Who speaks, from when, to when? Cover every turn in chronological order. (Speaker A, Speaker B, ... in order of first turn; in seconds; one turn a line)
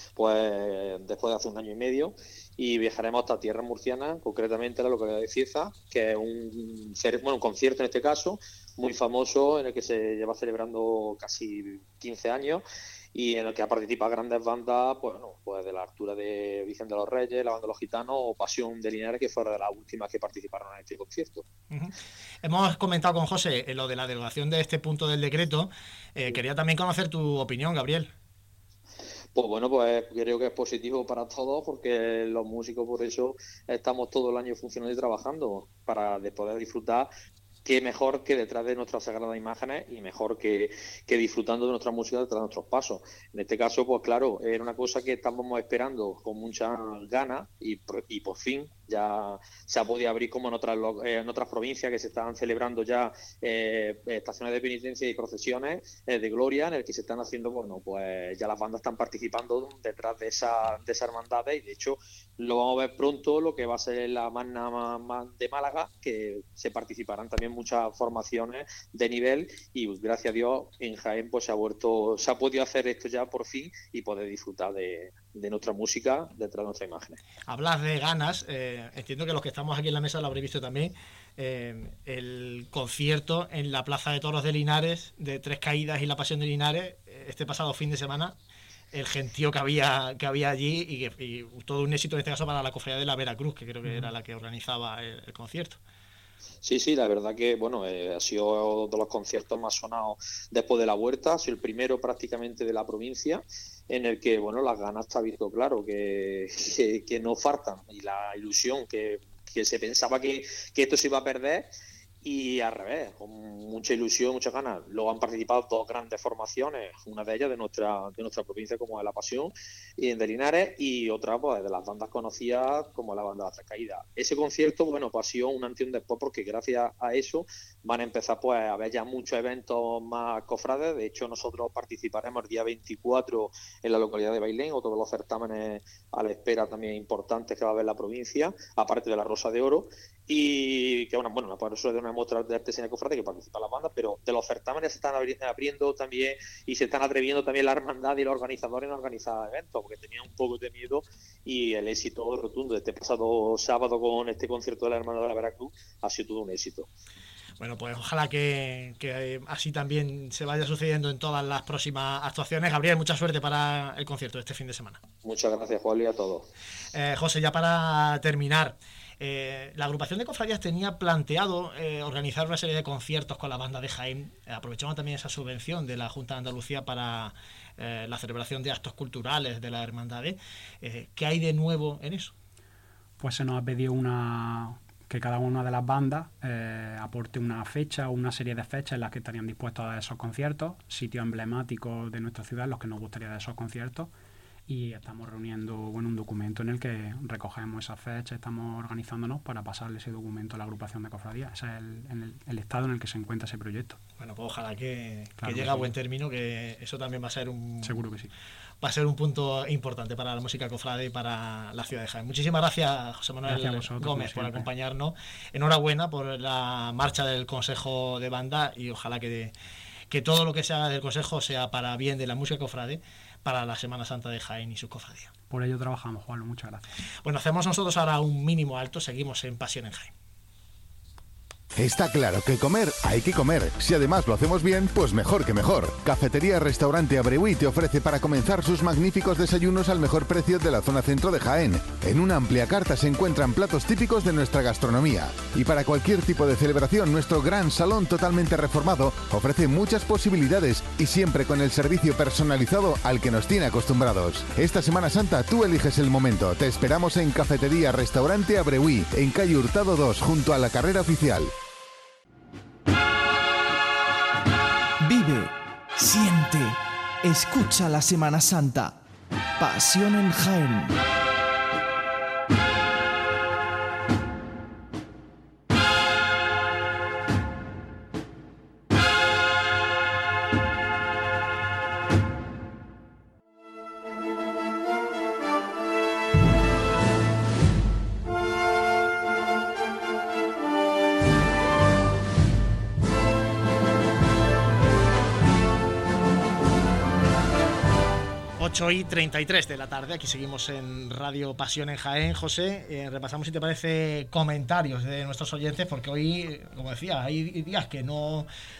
Speaker A: 0.1-12.6
Speaker A: 13.1-21.4
Speaker B: 21.7-28.1
Speaker A: 29.3-37.1
Speaker A: 37.6-77.2
Speaker B: 77.5-88.3
Speaker B: 88.9-95.8
Speaker A: 96.6-111.7
Speaker A: 112.2-156.9
Speaker B: 157.6-165.0
Speaker A: 165.2-166.5
Speaker B: 166.9-182.3
Speaker C: 183.2-194.1
Speaker C: 194.7-204.0
Speaker B: 204.2-208.0
Speaker C: 205.4-205.9
Speaker C: 207.8-208.3
Speaker B: 208.8-219.5
Speaker C: 213.4-214.7
Speaker B: 220.1-225.3
Speaker C: 225.5-226.8
Speaker B: 227.2-230.1
Speaker D: 231.8-261.5
Speaker E: 265.0-269.0
Speaker E: 269.6-271.0
Speaker B: 298.6-308.5